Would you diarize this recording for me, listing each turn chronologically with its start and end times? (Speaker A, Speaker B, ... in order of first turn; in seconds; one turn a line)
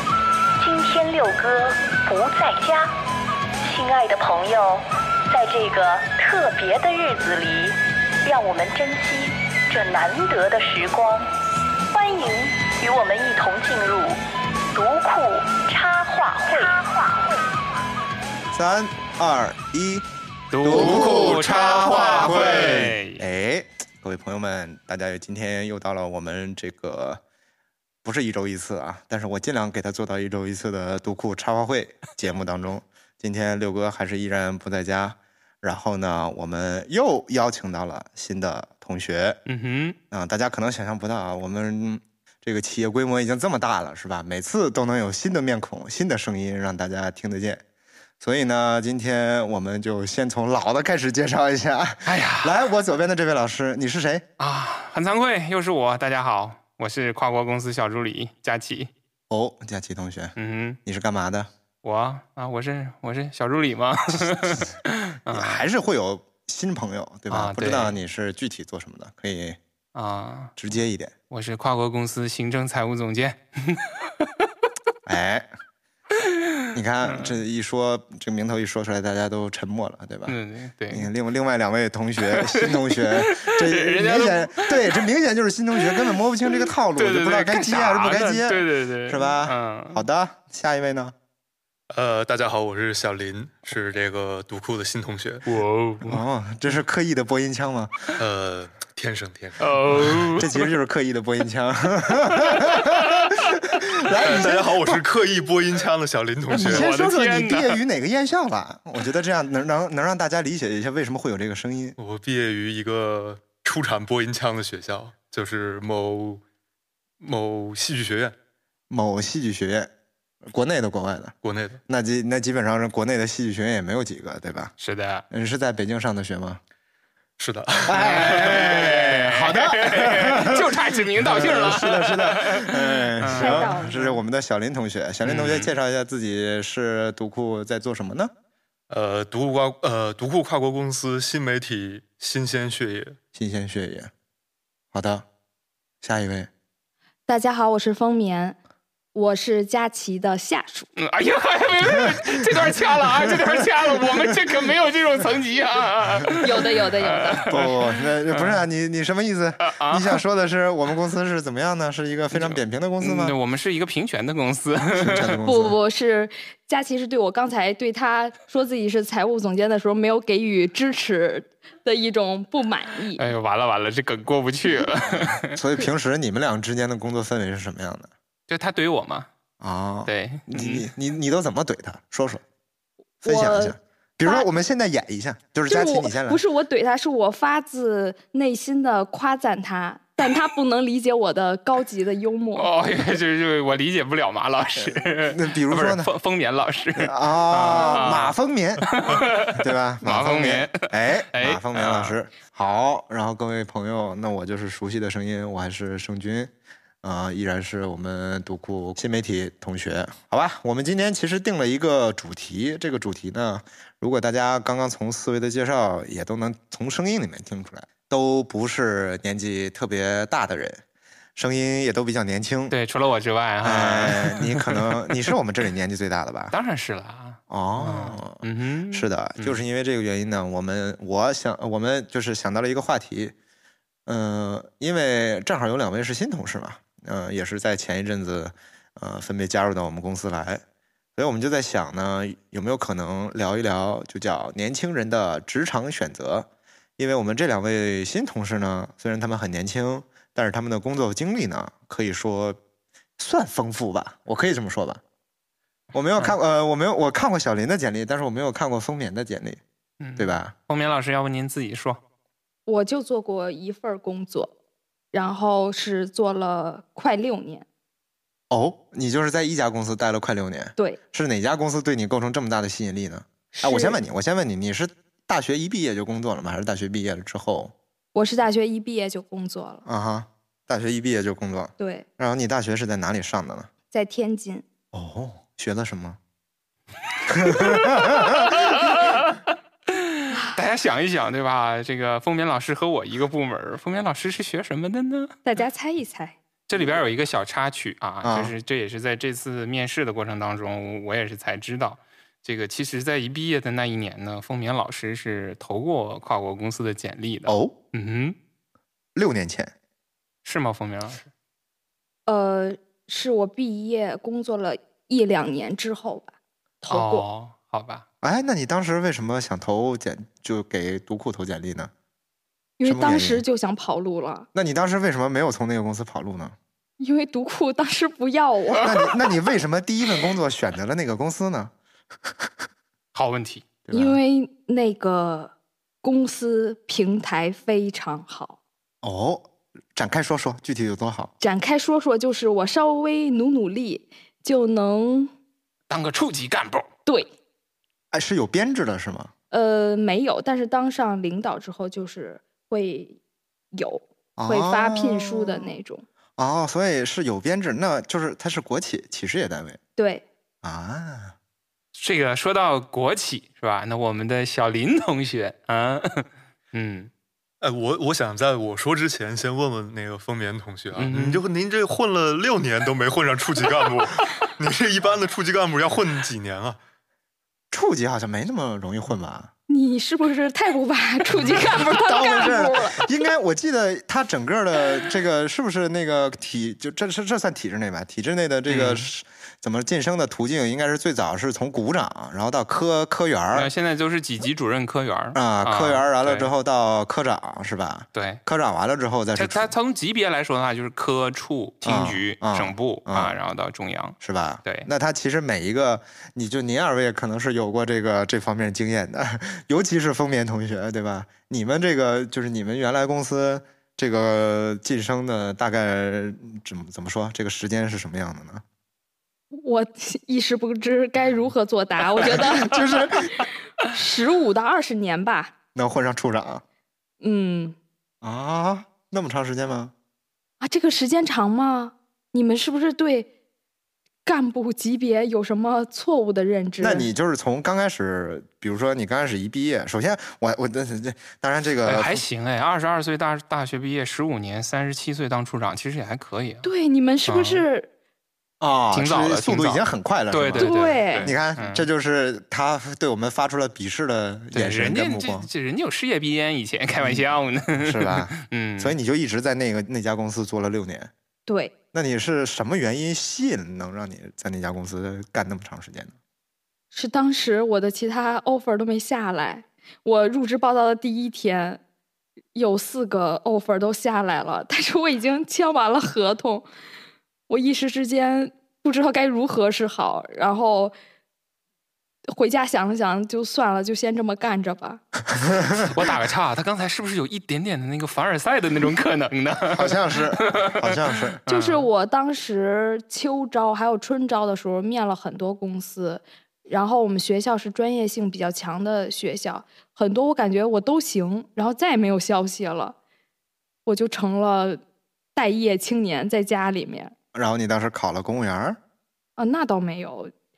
Speaker A: 0.6-2.9
Speaker A: 3.6-11.2
Speaker A: 11.9-14.2
Speaker A: 14.7-16.8
Speaker B: 18.5-20.1
Speaker C: 20.5-23.2
Speaker B: 20.6-27.2
Speaker B: 28.0-39.4
Speaker C: 39.5-40.0
Speaker B: 40.1-47.6
Speaker B: 48.2-54.2
Speaker C: 52.0-52.6
Speaker C: 54.4-58.9
Speaker B: 59.3-61.5
Speaker C: 60.4-60.8
Speaker C: 61.8-65.6
Speaker B: 65.3-69.6
Speaker C: 67.3-68.0
Speaker C: 69.9-70.5
Speaker B: 70.6-71.1
Speaker C: 71.3-73.8
Speaker B: 75.0-75.5
Speaker B: 76.7-80.3
Speaker C: 77.0-77.4
Speaker C: 80.2-81.1
Speaker B: 80.9-91.1
Speaker C: 82.2-85.0
Speaker C: 85.8-90.0
Speaker D: 91.9-95.5
Speaker C: 95.5-96.2
Speaker B: 96.0-97.9
Speaker D: 98.2-100.3
Speaker C: 99.6-100.5
Speaker B: 100.3-105.0
Speaker C: 102.6-103.3
Speaker D: 104.2-106.8
Speaker B: 106.5-112.0
Speaker C: 106.5-107.8
Speaker D: 112.0-116.4
Speaker D: 117.2-118.3
Speaker B: 118.9-119.9
Speaker B: 120.5-121.3
Speaker D: 121.4-121.8
Speaker B: 121.9-124.7
Speaker C: 124.8-125.2
Speaker B: 125.3-126.6
Speaker D: 127.4-128.6
Speaker B: 127.9-138.3
Speaker C: 127.9-133.9
Speaker E: 133.3-134.2
Speaker C: 135.2-135.7
Speaker D: 138.9-143.2
Speaker B: 143.3-144.1
Speaker B: 144.9-145.2
Speaker B: 146.0-146.5
Speaker E: 147.3-148.6
Speaker E: 149.1-150.9
Speaker C: 151.0-157.5
Speaker B: 153.2-154.0
Speaker E: 156.4-157.5
Speaker B: 157.5-163.3
Speaker C: 158.3-158.6
Speaker C: 159.7-160.1
Speaker C: 162.3-165.4
Speaker B: 165.0-165.8
Speaker E: 165.4-173.2
Speaker C: 173.2-175.6
Speaker B: 175.5-178.1
Speaker C: 178.5-179.3
Speaker B: 179.6-182.4
Speaker C: 180.1-180.9
Speaker B: 183.2-186.4
Speaker E: 183.2-184.5
Speaker E: 185.7-192.7
Speaker C: 192.6-198.3
Speaker B: 194.8-196.1
Speaker B: 197.0-206.5
Speaker C: 198.9-202.2
Speaker B: 207.0-220.8
Speaker B: 221.3-222.8
Speaker C: 222.7-224.8
Speaker B: 223.6-226.5
Speaker C: 226.5-229.6
Speaker B: 227.5-233.3
Speaker B: 234.1-240.6
Speaker B: 241.2-252.6
Speaker B: 253.2-255.0
Speaker B: 255.9-259.6
Speaker C: 260.0-262.0
Speaker B: 260.2-260.5
Speaker E: 262.7-264.5
Speaker E: 265.1-267.6
Speaker B: 268.5-277.7
Speaker E: 273.5-274.0
Speaker E: 278.1-279.9
Speaker B: 279.9-283.7
Speaker E: 281.8-282.0
Speaker E: 283.9-284.6
Speaker B: 284.9-286.2
Speaker B: 287.3-288.5
Speaker C: 287.4-289.4
Speaker C: 290.5-295.3
Speaker E: 295.4-296.4
Speaker C: 296.7-308.4
Speaker B: 298.2-298.5
Speaker B: 307.5-307.8
Speaker B: 309.1-309.7
Speaker C: 310.4-311.3
Speaker E: 312.3-317.3
Speaker C: 316.9-318.0
Speaker B: 318.2-321.9
Speaker E: 322.8-324.5
Speaker B: 322.8-323.4
Speaker B: 324.5-326.5
Speaker E: 327.0-329.1
Speaker B: 328.8-331.7
Speaker B: 332.2-332.5
Speaker C: 333.1-333.6
Speaker B: 333.9-334.2
Speaker E: 333.9-335.5
Speaker E: 336.0-338.6
Speaker B: 339.0-341.3
Speaker E: 341.4-345.3
Speaker C: 345.9-346.9
Speaker B: 348.1-349.3
Speaker E: 349.5-353.2
Speaker E: 353.7-356.0
Speaker B: 354.4-355.7
Speaker B: 356.4-359.8
Speaker E: 360.0-360.2
Speaker B: 360.6-361.3
Speaker C: 361.9-367.1
Speaker D: 367.6-376.8
Speaker C: 371.0-371.4
Speaker B: 377.7-379.5
Speaker E: 379.7-383.1
Speaker B: 381.8-393.7
Speaker C: 388.7-389.1
Speaker C: 393.5-396.5
Speaker B: 395.4-399.7
Speaker C: 398.1-398.4
Speaker C: 399.4-404.9
Speaker B: 401.8-403.4
Speaker B: 404.2-418.6
Speaker E: 419.5-425.5
Speaker B: 422.2-423.4
Speaker B: 425.8-426.6
Speaker E: 427.2-427.8
Speaker B: 428.2-429.9
Speaker E: 430.6-433.3
Speaker E: 434.2-437.1
Speaker B: 436.8-442.2
Speaker C: 441.9-446.7
Speaker E: 446.6-447.9
Speaker B: 447.3-447.6
Speaker B: 448.6-455.5
Speaker C: 448.9-451.9
Speaker E: 450.6-451.3
Speaker C: 454.5-459.0
Speaker B: 457.0-461.1
Speaker E: 461.5-461.7
Speaker B: 461.9-466.1
Speaker E: 466.9-471.8
Speaker E: 472.5-476.6
Speaker E: 477.5-480.9
Speaker E: 482.3-485.0
Speaker B: 485.5-485.8
Speaker C: 485.9-491.9
Speaker B: 489.7-491.4
Speaker E: 491.5-503.0
Speaker E: 503.9-504.8
Speaker E: 505.4-507.1
Speaker B: 507.3-508.8
Speaker E: 509.4-510.3